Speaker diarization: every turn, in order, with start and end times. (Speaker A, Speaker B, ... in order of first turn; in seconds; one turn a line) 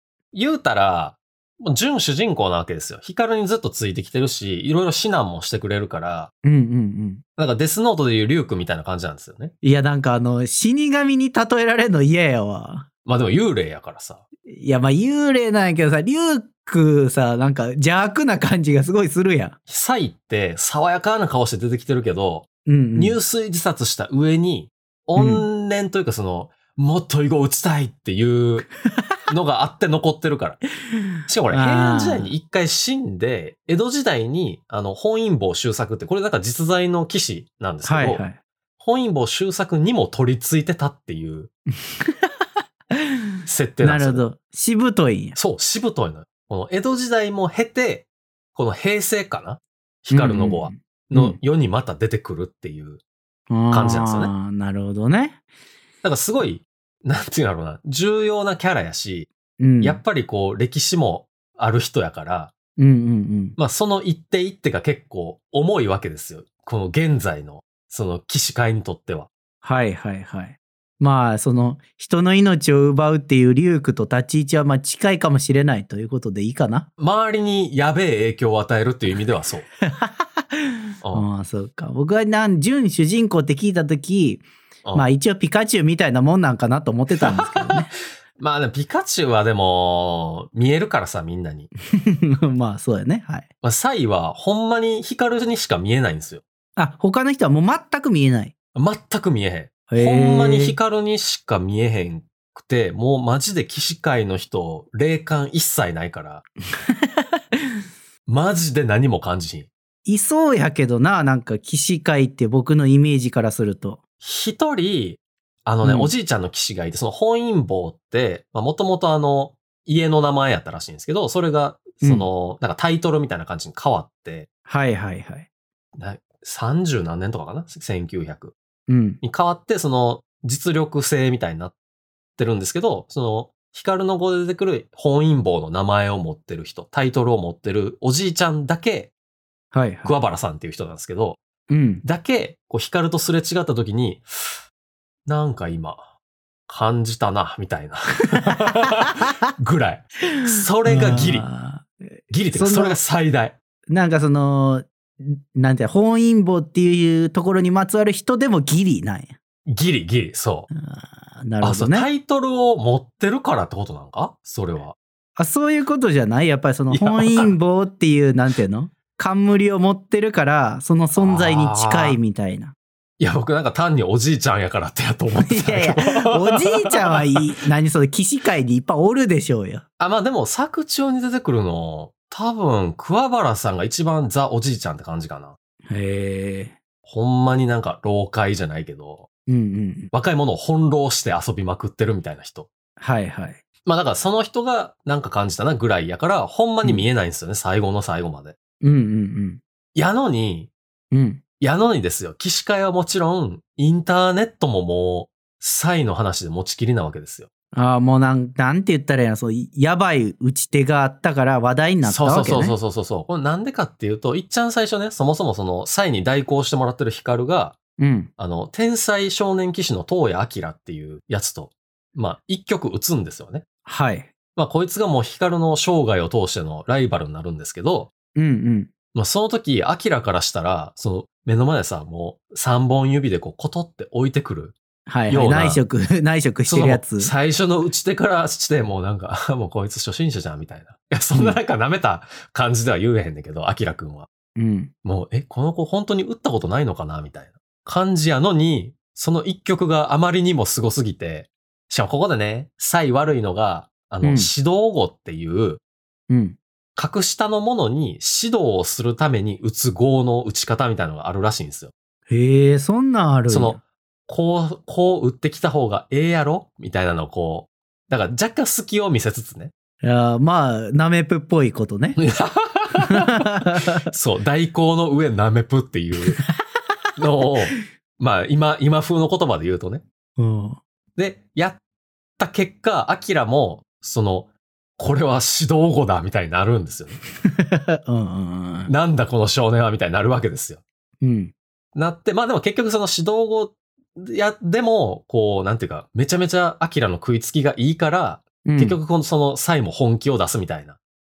Speaker A: 0.3-6.3
Speaker B: 6.4-7.2
Speaker A: 7.4-9.5
Speaker B: 9.6-12.9
Speaker A: 13.1-14.2
Speaker B: 14.4-19.5
Speaker A: 19.7-28.7
Speaker B: 22.6-23.2
Speaker B: 25.1-25.4
Speaker A: 29.3-30.6
Speaker A: 31.3-38.2
Speaker B: 31.5-32.3
Speaker B: 37.8-38.4
Speaker A: 38.8-41.5
Speaker B: 41.9-43.2
Speaker A: 43.5-44.2
Speaker B: 43.8-45.4
Speaker A: 45.4-53.0
Speaker B: 50.1-51.4
Speaker B: 53.5-55.4
Speaker A: 53.7-54.3
Speaker A: 56.0-59.3
Speaker B: 59.6-60.0
Speaker A: 59.8-62.5
Speaker B: 62.8-63.6
Speaker A: 63.6-69.3
Speaker B: 69.6-76.9
Speaker A: 77.0-79.7
Speaker B: 79.8-87.9
Speaker A: 87.1-87.8
Speaker A: 88.3-91.7
Speaker B: 91.9-93.5
Speaker A: 93.6-96.4
Speaker B: 96.8-98.5
Speaker A: 98.8-106.4
Speaker B: 99.9-100.8
Speaker B: 106.9-107.4
Speaker A: 108.3-109.7
Speaker B: 110.0-114.0
Speaker A: 114.2-124.5
Speaker B: 115.8-116.1
Speaker B: 122.0-122.3
Speaker B: 124.7-125.5
Speaker A: 126.0-128.5
Speaker B: 128.9-129.2
Speaker A: 129.2-131.7
Speaker A: 132.4-139.1
Speaker B: 139.7-140.2
Speaker A: 140.0-141.4
Speaker B: 141.7-142.0
Speaker A: 142.0-144.6
Speaker A: 145.2-146.0
Speaker A: 146.7-151.5
Speaker B: 150.4-151.9
Speaker A: 152.3-153.6
Speaker B: 152.5-153.0
Speaker B: 153.9-159.3
Speaker A: 159.7-160.7
Speaker B: 160.7-162.1
Speaker A: 161.6-164.9
Speaker B: 165.4-172.8
Speaker A: 166.9-167.5
Speaker A: 171.1-172.2
Speaker A: 173.2-177.2
Speaker B: 175.4-179.8
Speaker A: 180.0-185.6
Speaker B: 185.9-186.8
Speaker A: 187.0-189.3
Speaker B: 189.5-190.1
Speaker A: 190.1-192.7
Speaker B: 193.0-193.6
Speaker A: 193.8-198.5
Speaker B: 198.8-199.6
Speaker A: 199.9-200.7
Speaker B: 201.1-201.4
Speaker A: 201.6-207.5
Speaker B: 207.7-212.8
Speaker A: 212.0-217.8
Speaker B: 218.0-218.3
Speaker A: 218.4-223.6
Speaker B: 223.8-224.3
Speaker A: 224.5-228.1
Speaker B: 228.3-228.9
Speaker A: 229.1-234.8
Speaker B: 235.1-237.3
Speaker A: 235.3-235.8
Speaker A: 236.7-244.3
Speaker B: 244.6-244.9
Speaker A: 245.0-255.8
Speaker B: 254.2-254.5
Speaker B: 256.3-256.6
Speaker A: 256.9-261.9
Speaker B: 262.3-263.8
Speaker A: 263.5-269.7
Speaker B: 270.0-272.2
Speaker A: 272.1-276.4
Speaker B: 273.1-274.0
Speaker B: 276.4-276.8
Speaker A: 277.2-280.0
Speaker B: 280.4-280.8
Speaker A: 281.1-281.8
Speaker A: 282.4-287.2
Speaker B: 287.4-288.9
Speaker A: 288.9-290.8
Speaker B: 291.2-291.5
Speaker A: 291.9-301.0
Speaker B: 298.6-299.0